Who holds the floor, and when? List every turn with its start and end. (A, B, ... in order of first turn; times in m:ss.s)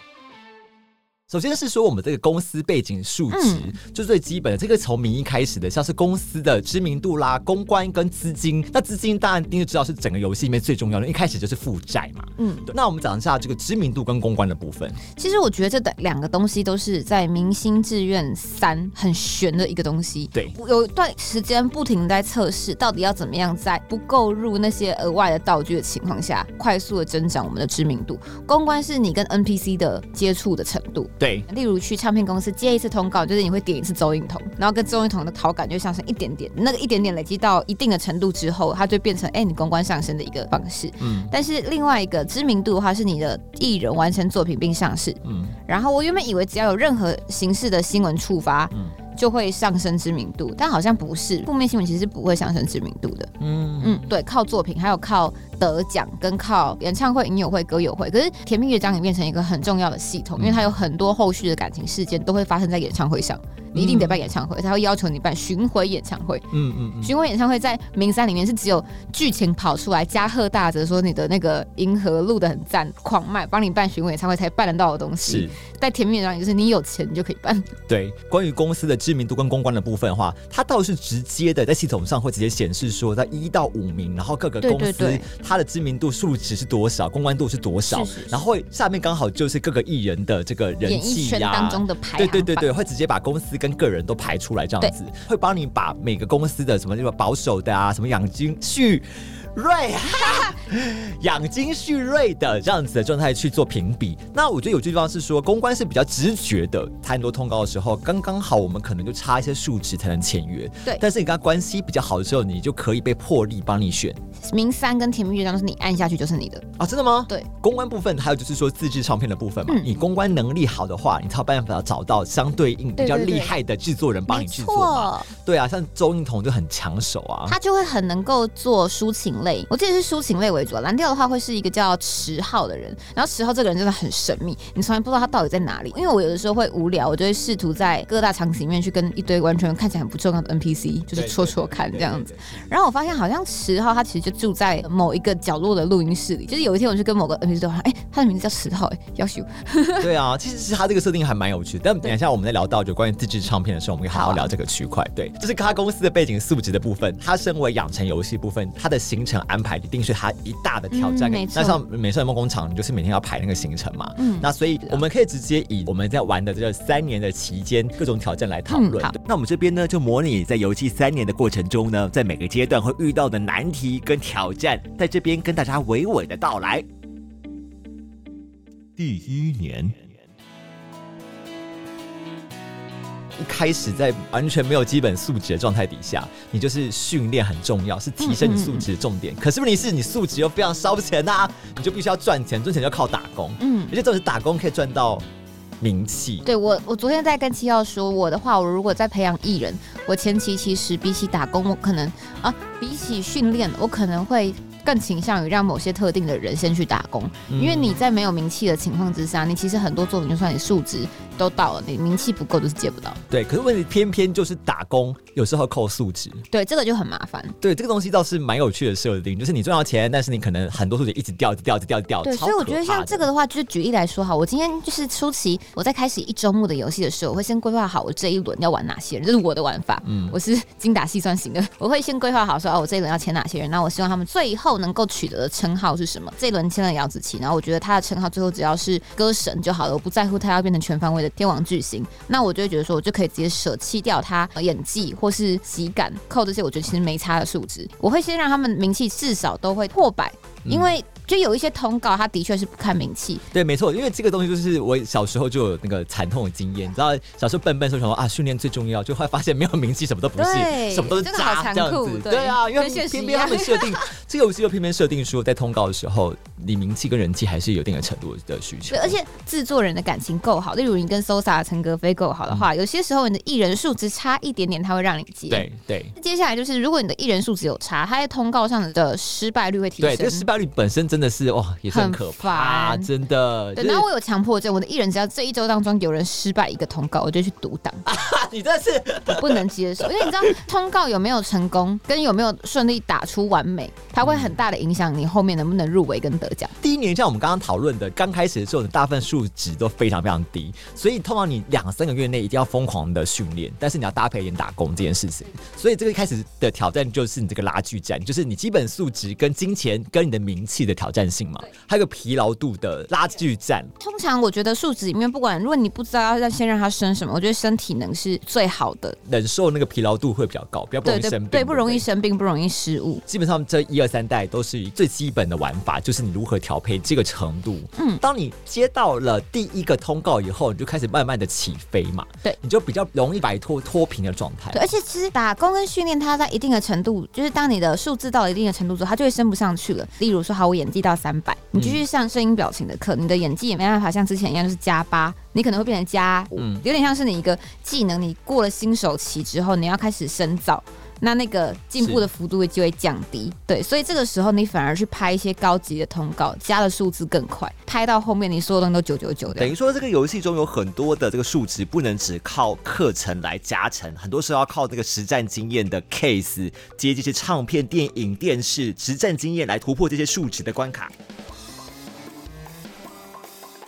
0:01.3-0:15.0 A
0:03.3-0:03.7 B
0:12.4-0:12.7 B
0:15.2-1:06.5 B
0:31.2-0:31.5 A
0:41.0-0:41.3 A
0:45.2-0:45.6 A
0:53.4-0:54.1 A
1:00.4-1:00.7 A
1:03.7-1:04.2 A
1:06.5-1:07.1 A
1:07.0-1:17.7 B
1:15.2-1:15.5 A
1:17.9-1:54.2 A
1:24.6-1:25.2 B
1:27.9-1:28.4 B
1:30.8-1:32.7 B
1:40.1-1:40.5 B
1:54.4-1:56.6 B
1:56.8-2:07.6 A
2:03.0-2:03.6 B
2:04.3-2:05.3 B
2:07.5-2:30.1 B
2:21.1-2:22.5 A
2:30.0-2:56.9 A
2:34.1-2:34.5 B
2:40.9-2:41.8 B
2:44.2-2:45.0 B
2:48.7-2:49.2 B
2:59.0-3:00.1 A
3:03.4-3:15.2 A
3:08.2-3:08.9 B
3:13.6-3:14.0 B
3:15.8-3:16.4 A
3:16.4-3:33.2 B
3:27.5-3:28.0 A
3:33.3-3:36.4 A
3:36.5-3:37.6 B
3:37.6-3:43.3 A
3:42.2-4:13.4 B
3:50.0-3:50.4 A
4:10.6-4:10.9 A
4:13.5-4:29.2 A
4:20.4-4:24.1 B
4:28.9-4:40.5 B
4:35.5-4:36.1 A
4:40.0-4:44.1 A
4:41.9-4:43.1 B
4:43.8-4:48.0 B
4:48.0-4:50.5 A
4:49.3-4:56.7 B
4:54.2-4:54.6 A
4:56.8-5:13.9 A
5:14.0-5:19.2 B
5:19.3-5:22.0 A
5:21.0-5:23.2 B
5:23.3-5:34.8 A
5:28.0-5:28.2 B
5:34.7-5:59.7 B
5:41.8-5:42.0 A
5:46.6-5:46.8 A
5:52.0-5:52.2 A
5:59.5-6:11.1 A